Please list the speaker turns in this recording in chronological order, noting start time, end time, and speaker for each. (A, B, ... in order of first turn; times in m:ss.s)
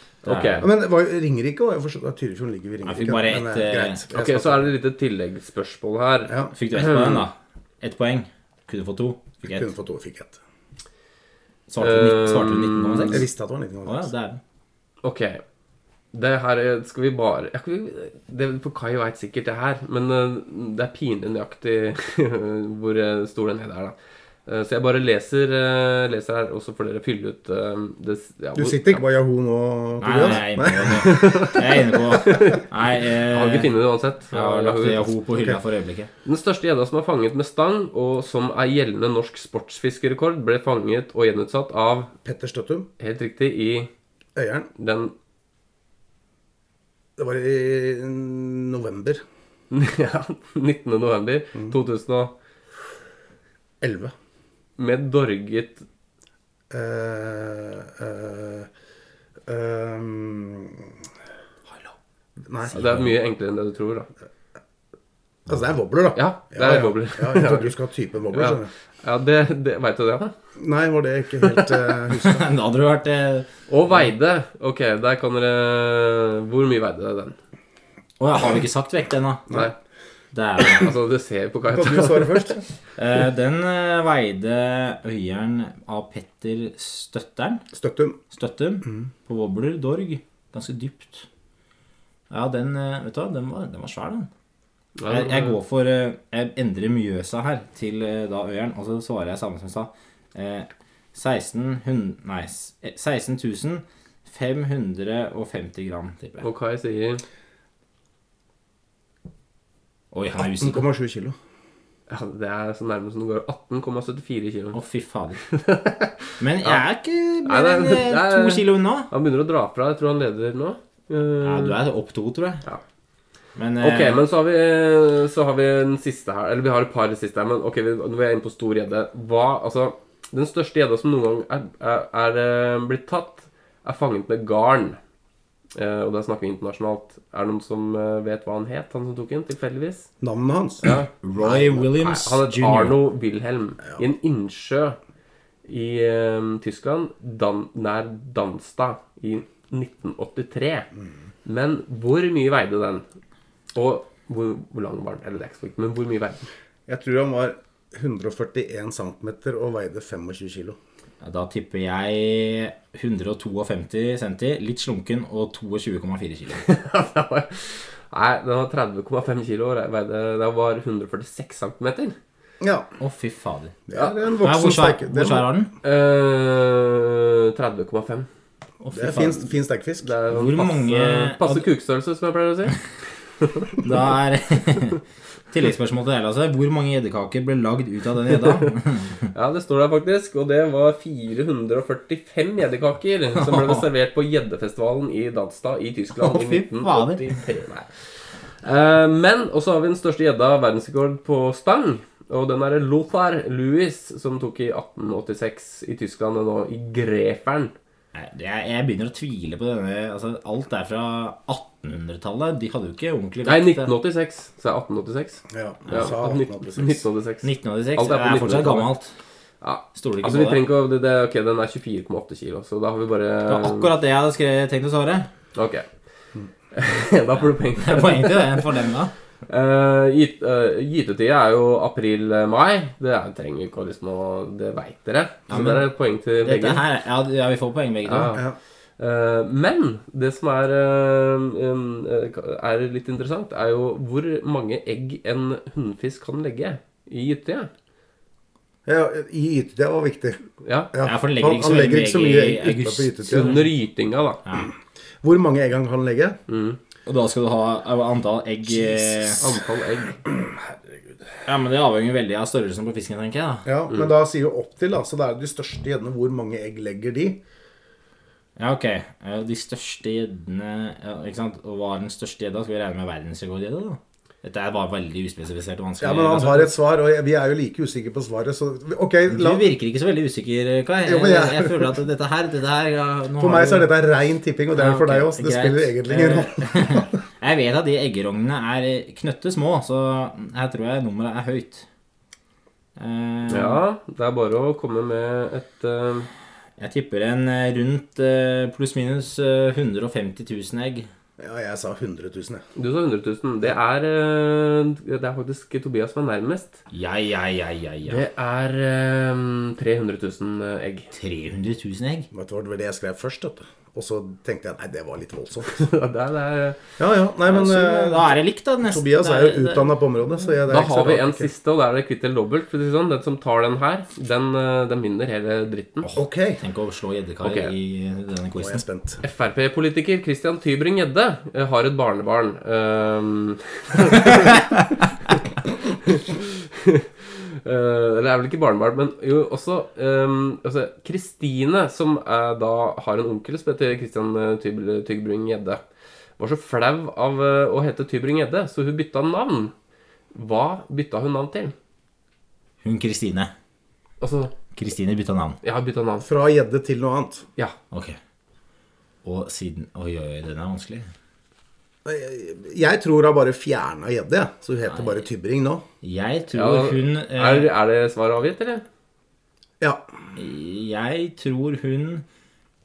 0:00.2-0:00.6 A
0:00.2-0:00.7 B
0:00.6-0:04.7 C
0:02.8-0:04.0 B
0:04.1-0:07.2 A
0:06.5-0:09.7 B
0:09.4-0:10.4 C
0:11.7-0:13.3 B
0:11.8-0:13.2 A
0:13.1-0:14.1 C
0:13.8-0:14.4 B
0:15.0-0:15.4 A
0:16.1-0:29.0 A
0:28.5-0:31.5 C
0:30.0-0:33.7 B
0:30.7-0:32.6 A
0:33.2-0:35.1 A
0:34.3-0:36.1 B
0:36.2-0:42.1 A
0:42.2-0:42.9 C
0:43.0-0:43.9 A
0:44.4-0:44.7 C
0:44.8-0:45.1 A
0:47.2-0:49.2 C
0:49.7-0:52.3 A
0:53.8-0:54.1 C
0:54.8-0:55.8 A
0:56.7-0:58.7 C
0:59.5-1:00.9 C
1:02.5-1:02.7 C
1:02.7-1:04.1 A
1:02.7-1:03.1 B
1:05.5-1:08.7 C
1:06.1-1:07.7 A
1:08.3-1:10.3 A
1:10.6-1:12.5 C
1:11.4-1:11.7 A
1:12.2-1:13.5 B
1:13.7-1:17.4 A
1:18.2-1:19.5 B
1:20.3-1:20.9 B
1:20.6-1:22.6 A
1:21.7-1:22.6 C
1:23.0-1:27.6 B
1:27.7-1:28.2 C
1:28.3-1:31.2 B
1:32.3-1:34.3 B
1:35.0-1:35.6 A
1:35.1-1:46.4 B
1:46.4-1:47.2 A
1:50.1-1:50.8 B
1:50.4-1:51.4 C
1:52.1-1:54.8 A
1:54.7-1:55.4 B
1:55.4-1:56.8 A
1:56.4-1:59.1 B
1:57.4-2:01.8 A
2:01.4-2:02.6 B
2:03.6-2:04.2 B
2:03.8-2:15.0 A
2:15.7-2:20.1 A
2:20.2-2:20.8 C
2:20.8-2:25.0 A
2:21.2-2:22.9 B
2:25.6-2:30.9 A
2:31.4-2:33.0 A
2:33.7-2:36.4 A
2:36.9-2:40.8 C
2:41.2-2:46.6 B
2:46.6-2:52.2 A
2:52.6-2:52.9 C
2:53.0-2:53.8 B
2:53.9-2:55.5 C
2:54.4-2:55.7 B
2:55.8-2:58.3 A
2:58.8-2:59.4 B
2:58.9-3:00.1 C
3:00.0-3:02.8 A
3:00.3-3:01.6 B
3:03.4-3:03.7 A
3:03.8-3:05.0 B
3:05.5-3:09.1 B
3:09.3-3:27.7 A
3:13.4-3:13.8 B
3:16.2-3:17.3 B
3:28.1-3:33.9 B
3:33.4-3:38.9 A
3:35.5-3:37.0 C
3:35.9-3:36.1 B
3:37.4-3:39.1 B
3:39.6-3:43.9 A
3:39.9-3:40.6 B
3:43.4-3:45.3 B
3:45.5-3:45.8 A
3:46.7-3:48.7 A
3:47.8-3:49.1 B
3:49.5-3:56.8 A
3:55.5-3:55.9 B
3:56.4-3:58.4 B
3:58.0-3:58.4 A
3:59.0-4:07.7 A
4:08.8-4:10.4 C
4:10.6-4:10.9 A
4:10.9-4:13.6 C
4:11.0-4:13.6 B
4:13.3-4:14.4 A
4:15.2-4:16.4 C
4:16.5-4:16.8 A
4:17.0-4:19.4 B
4:19.4-4:20.2 A
4:21.4-4:23.6 B
4:23.6-4:27.4 C
4:28.6-4:36.7 B
4:36.0-4:39.6 C
4:39.3-4:43.9 B
4:41.0-4:41.9 C
4:43.4-4:47.1 C
4:44.7-4:51.8 B
4:53.0-4:53.8 B
4:53.5-4:56.3 A
4:56.8-5:01.1 B
5:01.4-5:02.6 C
5:02.8-5:06.8 A
5:06.9-5:08.2 B
5:08.0-5:11.1 A
5:11.1-5:12.3 B
5:12.3-5:15.8 C
5:15.7-5:16.8 A
5:17.0-5:21.5 C
5:17.4-5:19.9 B
5:20.7-5:26.1 A
5:26.0-5:28.8 B
5:26.1-5:26.6 C
5:27.4-5:27.7 A
5:28.6-5:29.2 C
5:29.2-5:34.6 A
5:36.0-5:45.8 A
5:46.4-5:49.7 A
5:50.3-5:51.7 A
5:52.8-5:53.5 B
5:54.2-5:54.5 A
5:54.7-5:55.6 B
5:55.6-5:56.3 A
5:56.2-5:57.4 C
5:57.9-5:58.2 B
5:59.2-6:01.1 B
6:02.0-6:05.8 C
6:04.9-6:05.2 B
6:06.0-6:07.7 B
6:06.5-6:08.8 A
6:10.4-6:12.2 B